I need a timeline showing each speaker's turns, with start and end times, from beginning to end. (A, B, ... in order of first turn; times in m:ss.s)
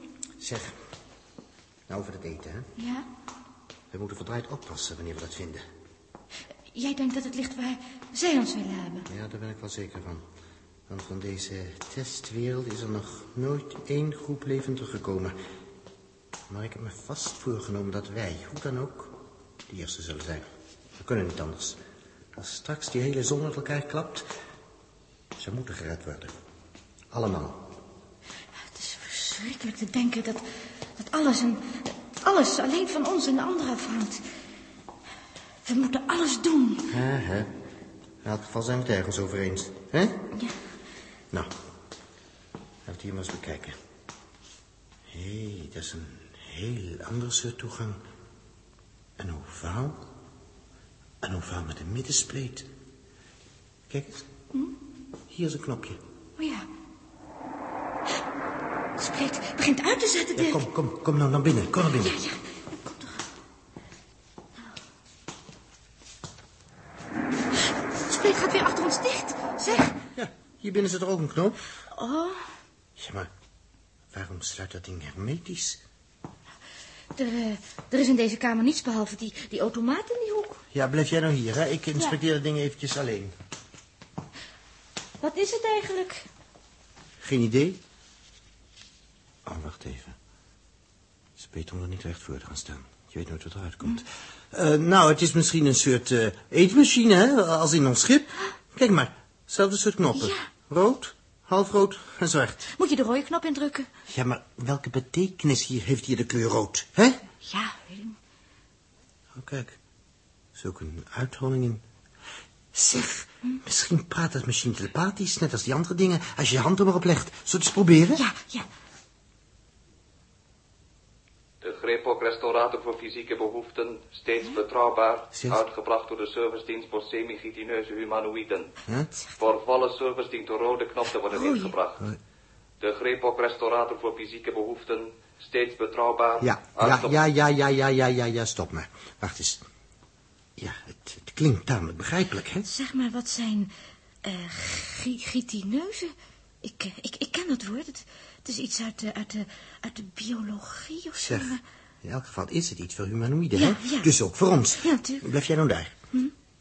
0:00.4-0:00.8 A
0:01.9-0:02.7 A
0:02.8-0:03.1 B
0:03.9-0:05.6 A
0:06.7-0:09.1 B
0:09.1-0:10.3 A
0:10.9-0:15.4 A
0:16.5-0:21.8 A
0:22.3-0:24.3 A
0:25.4-0:26.4 A
0:27.1-0:27.7 A
0:28.7-0:30.4 B
0:31.0-0:34.2 B
0:35.6-0:37.0 B
0:36.9-0:37.5 A
0:38.2-0:40.3 A
0:42.8-0:43.8 A
0:45.1-0:48.0 A
0:49.2-0:50.0 A
0:51.2-0:52.7 A
0:53.9-0:54.3 A
0:55.3-0:56.0 A
0:56.4-0:56.7 B
0:59.0-1:00.6 B
1:00.3-1:02.2 A
1:02.0-1:03.2 B
1:08.1-1:09.9 B
1:10.1-1:11.6 A
1:11.9-1:12.4 B
1:13.0-1:13.3 A
1:14.1-1:15.8 A
1:17.1-1:20.6 B
1:20.7-1:23.3 A
1:25.2-1:26.2 B
1:27.2-1:27.8 A
1:29.4-1:30.2 A
1:31.4-1:42.7 A
1:40.1-1:40.4 B
1:42.8-1:43.9 B
1:44.1-1:47.2 A
1:47.4-1:48.2 B
1:49.3-1:49.8 A
1:50.6-1:51.8 A
1:52.7-1:58.2 A
1:58.2-1:58.7 B
2:01.6-2:08.7 C
2:05.3-2:05.6 A
2:09.4-2:12.1 C
2:11.3-2:11.7 B
2:12.8-2:17.2 C
2:16.4-2:19.6 A
2:20.6-2:22.7 A
2:22.7-2:23.7 B
2:24.2-2:31.6 B
2:31.2-2:36.0 A
2:33.6-2:34.1 B
2:34.8-2:35.2 B